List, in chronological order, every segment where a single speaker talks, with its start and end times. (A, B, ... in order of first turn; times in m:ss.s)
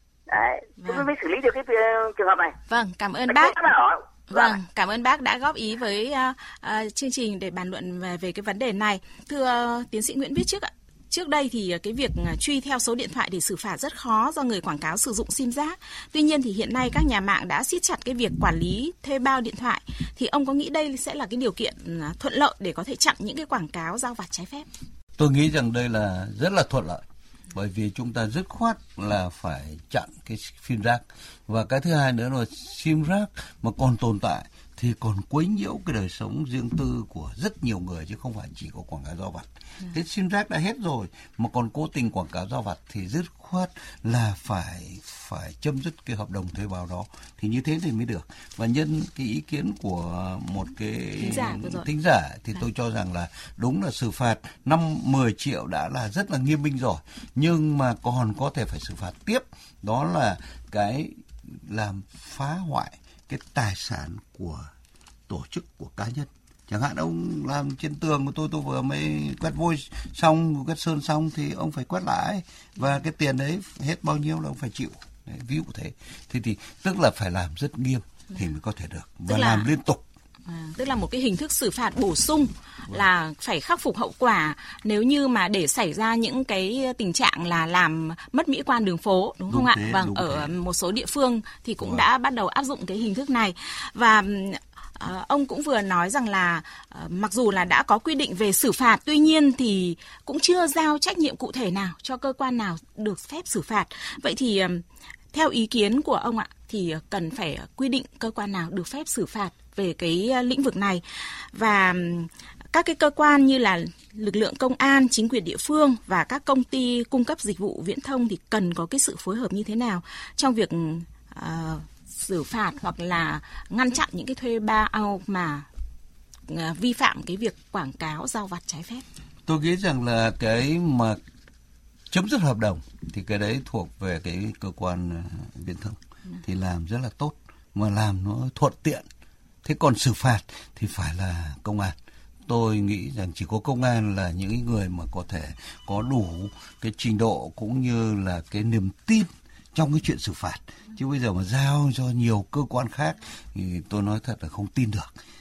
0:00.3-0:02.5 A
0:00.8-0:01.1 B
0:02.7-0:03.6 B
0:03.3-0:04.6 A
0:04.3-0:24.7 B
0:25.2-1:04.7 C
0:51.2-0:51.9 B
1:05.3-1:20.0 C
1:19.3-1:19.7 B
1:20.5-2:05.7 B
1:29.5-1:30.6 C
1:31.8-1:32.1 C
2:06.5-2:09.0 B
2:09.5-2:11.2 C
2:12.1-2:19.1 C
2:19.6-2:22.0 C
2:22.5-2:35.1 C